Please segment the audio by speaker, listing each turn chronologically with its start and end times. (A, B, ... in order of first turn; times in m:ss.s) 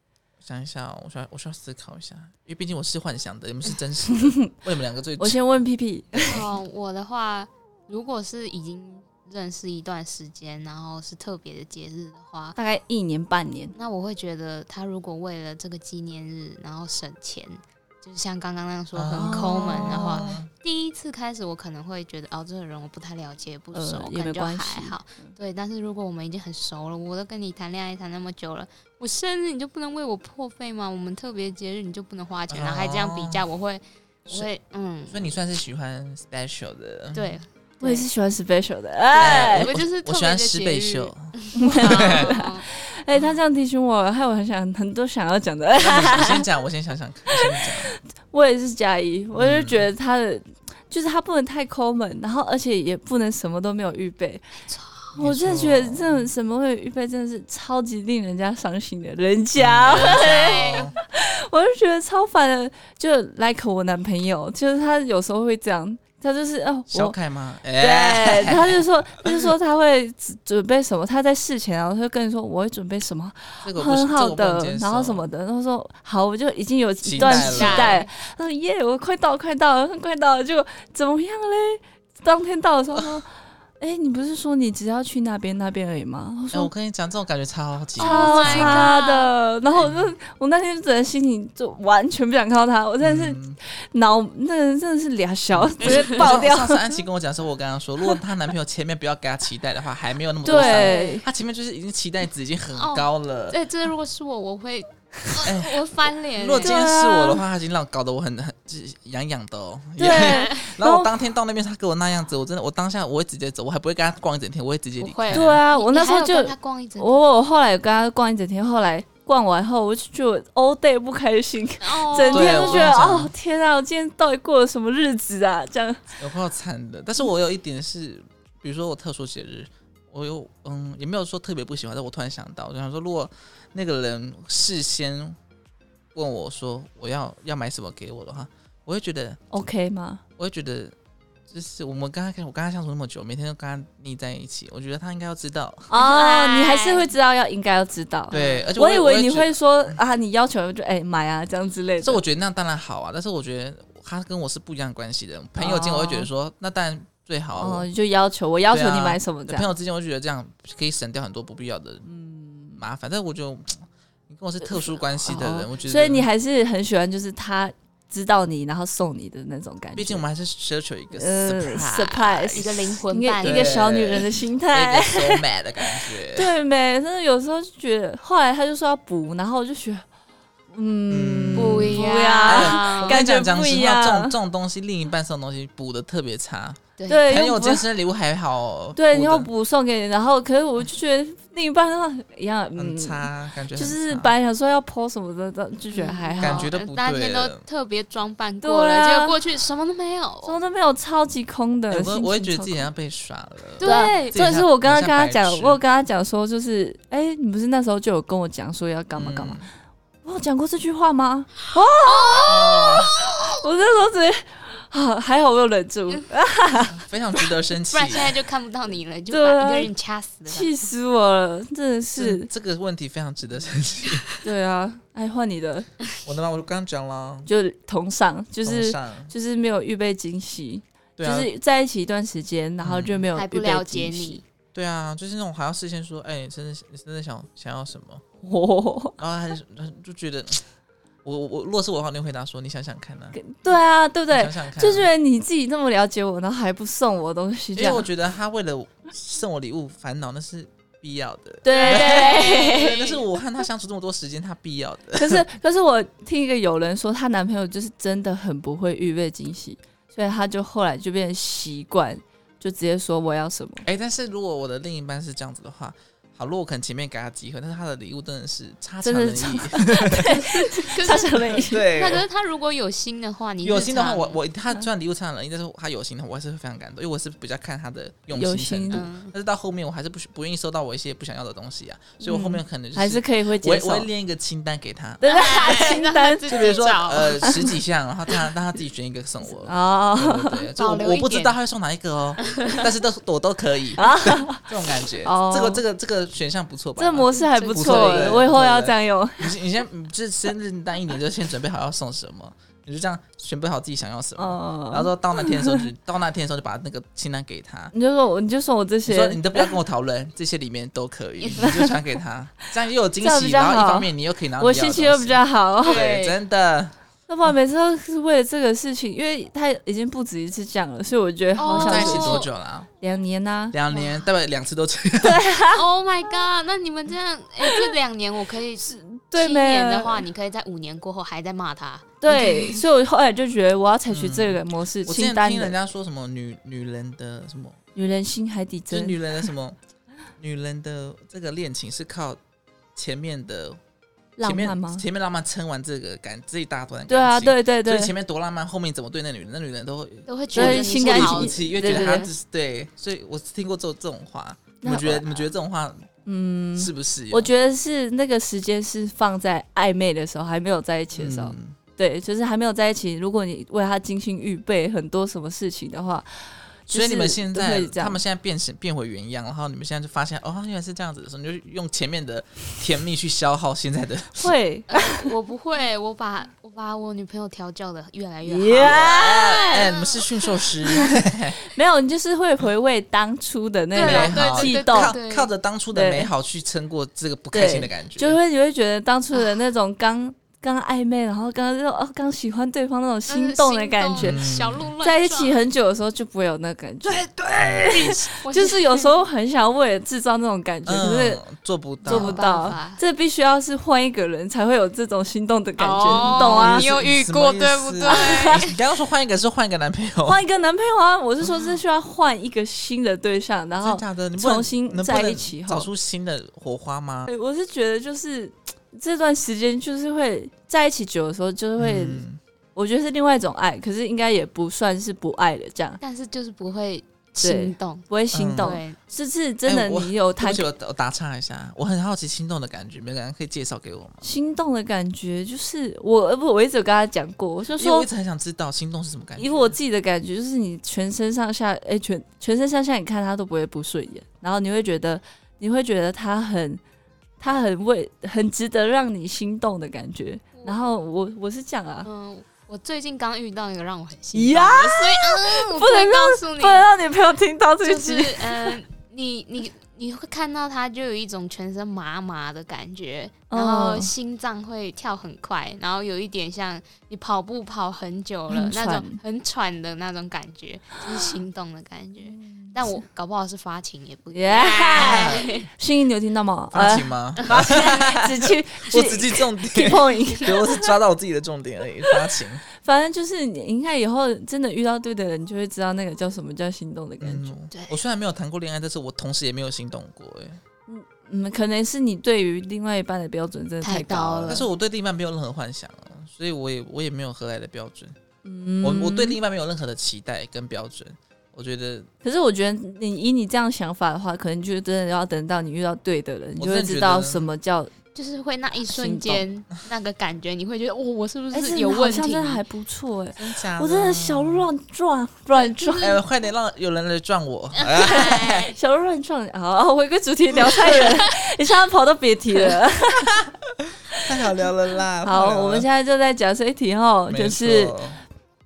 0:00.4-0:05.4 A
0:04.1-0:04.5 B
0:05.2-0:06.5 B
0:06.1-0:06.4 A
0:06.3-0:12.6 C
0:12.6-0:13.8 B
0:13.8-0:35.3 C
0:18.9-0:20.5 A
0:19.2-0:20.3 B
0:23.7-0:25.3 B
0:32.5-0:33.4 A
0:35.1-0:37.4 A
0:37.1-0:38.1 C
0:37.8-0:39.7 B
0:39.1-0:42.7 C
0:39.2-0:42.4 A
0:41.6-0:46.5 B
0:45.8-0:47.9 A
0:47.3-0:47.7 B
0:48.3-0:54.5 B
0:49.4-0:49.9 A
0:54.7-0:55.1 C
0:55.2-0:56.3 A
0:55.2-1:07.2 B
0:59.6-1:01.0 A
0:59.9-1:00.9 C
1:06.9-1:09.4 A
1:07.8-1:23.3 B
1:13.6-1:15.3 A
1:17.0-1:18.0 A
1:17.2-1:18.1 C
1:23.8-1:26.7 B
1:26.5-1:28.9 A
1:28.0-1:29.3 C
1:28.0-1:36.8 B
1:29.8-1:30.1 A
1:33.0-1:33.6 A
1:35.5-1:43.6 A
1:40.4-1:41.2 B
1:40.5-1:41.2 C
1:42.8-1:46.8 C
1:45.4-1:45.8 A
1:46.3-1:55.6 A
1:46.6-1:47.4 B
1:50.0-1:51.1 B
1:50.1-1:50.6 C
1:55.0-1:57.2 C
1:55.3-2:06.0 B
2:01.8-2:03.0 C
2:02.3-2:03.3 A
2:06.2-2:15.4 A
2:16.2-2:19.4 A
2:19.5-2:20.2 B
2:20.4-2:21.0 A
2:21.5-2:25.9 A
2:25.9-2:32.2 B
2:25.9-2:27.1 C
2:28.3-2:28.7 C
2:28.3-2:30.0 A
2:32.0-2:37.9 A
2:35.6-2:36.3 B
2:37.6-2:39.7 B
2:38.7-2:42.0 A
2:42.0-2:42.8 B
2:42.8-2:46.3 A
2:44.6-2:50.2 B
2:50.0-2:56.5 A
2:51.1-2:55.4 B
2:52.6-2:53.9 C
2:56.3-3:00.1 B
3:00.7-3:04.4 B
3:01.1-3:09.5 A
3:01.6-3:03.2 C
3:07.0-3:07.2 C
3:07.1-3:07.8 B
3:09.0-3:16.7 B
3:12.8-3:14.3 A
3:15.9-3:20.6 C
3:16.4-3:17.6 A
3:18.6-3:19.4 B
3:20.4-3:22.9 B
3:21.9-3:25.8 A
3:23.8-3:24.4 C
3:23.8-3:29.6 B
3:29.2-3:29.7 A
3:30.2-3:37.0 B
3:32.1-3:33.6 C
3:32.5-3:33.1 A
3:36.9-3:38.4 A
3:37.9-3:40.7 C
3:39.3-3:39.9 B
3:40.5-3:42.5 B
3:42.2-3:44.3 A
3:44.4-3:45.9 B
3:46.2-3:47.5 A
3:47.5-3:54.4 B
3:48.6-3:49.3 A
3:51.2-3:51.5 A
3:52.8-3:53.2 A
3:53.4-3:54.4 C
3:54.7-3:58.2 A
3:58.4-3:59.2 B
3:59.2-4:00.6 A
4:01.2-4:03.4 A
4:03.4-4:08.1 B
4:04.3-4:05.1 A
4:07.8-4:15.4 A
4:11.6-4:13.0 B
4:11.7-4:13.3 C
4:15.2-4:23.9 B
4:23.8-4:30.9 A
4:29.0-4:31.9 B
4:30.8-4:34.4 C
4:31.6-4:32.2 A
4:33.6-4:45.2 A
4:38.3-4:39.1 B
4:38.9-4:39.3 C
4:42.2-4:44.1 B
4:45.2-4:46.5 B
4:45.2-4:47.7 C
4:46.5-5:07.9 A
4:49.5-4:50.7 B
4:50.8-4:51.6 C
4:52.4-4:52.9 C
4:54.0-4:54.7 B
4:55.2-4:55.8 B
4:57.0-4:59.6 B
4:57.3-4:58.4 C
5:04.4-5:05.9 B
5:07.9-5:09.7 B
5:09.1-5:17.5 A
5:11.4-5:11.8 C
5:11.6-5:11.9 B
5:13.2-5:16.0 B
5:15.8-5:16.4 C
5:17.3-5:22.5 B
5:21.6-5:22.5 C
5:21.7-5:22.9 A
5:23.0-5:23.8 B
5:23.7-5:25.4 A
5:23.9-5:24.2 C
5:25.2-5:25.8 B
5:25.7-5:32.8 C
5:28.8-5:30.2 B
5:32.2-5:35.8 B
5:34.1-5:37.8 A
5:38.0-5:39.2 B
5:38.9-5:39.8 A
5:40.4-5:42.4 A
5:43.0-5:43.8 A
5:44.4-5:45.0 B
5:44.4-5:56.1 A
5:47.1-5:48.1 B
5:50.3-5:52.3 C
5:50.6-5:52.2 B
5:54.8-5:55.3 B
5:56.3-6:08.2 B
5:56.8-5:57.5 A
6:01.2-6:01.8 A
6:06.9-6:14.5 A
6:14.4-6:15.3 B
6:14.9-6:20.7 C
6:18.4-6:19.9 B
6:18.7-6:21.6 A
6:21.7-6:25.2 B
6:23.9-6:25.5 C
6:24.0-6:28.4 A
6:25.9-6:26.3 B
6:27.5-6:34.4 B
6:29.3-6:29.6 C
6:33.3-6:35.6 C
6:34.2-6:34.9 A
6:35.0-6:41.4 B
6:37.1-6:39.1 C
6:40.9-6:42.4 A
6:42.0-6:43.0 C
6:42.0-6:46.9 B
6:45.8-6:48.8 C
6:46.1-6:50.4 A
6:48.0-6:48.6 B
6:50.2-6:55.9 B
6:53.8-6:57.3 A
6:57.3-7:02.2 B
7:01.8-7:02.4 A
7:02.8-7:06.0 B
7:06.0-7:08.1 C
7:07.4-7:10.7 B
7:08.3-7:08.8 A
7:08.6-7:09.0 C
7:09.7-7:14.3 A
7:14.2-7:18.1 B
7:17.8-7:19.8 A
7:19.4-7:26.8 B
7:27.4-7:32.1 B
7:30.6-7:30.9 C
7:32.0-7:36.9 C
7:34.3-7:38.8 B
7:37.8-7:55.7 C
7:43.5-7:44.1 B
7:48.5-7:49.2 B
7:52.3-7:52.8 B
7:54.3-8:00.9 B
7:55.0-7:55.5 A
7:56.7-8:02.6 A
8:02.8-8:07.6 B
8:07.2-8:10.6 A
8:07.7-8:08.0 C
8:10.9-8:14.6 B
8:13.8-8:14.7 C
8:14.5-8:18.2 A
8:18.4-8:19.4 B
8:18.8-8:22.1 A
8:22.2-8:27.9 B
8:26.6-8:27.5 A
8:28.2-8:32.6 C
8:28.9-8:29.4 B
8:31.5-8:36.2 B
8:33.4-8:34.7 A
8:35.5-8:36.2 C
8:36.0-8:38.7 A
8:37.8-8:38.8 C
8:38.7-8:43.4 B
8:40.9-8:41.3 C
8:43.9-8:45.9 A
8:45.2-8:48.0 B
8:47.3-8:48.2 A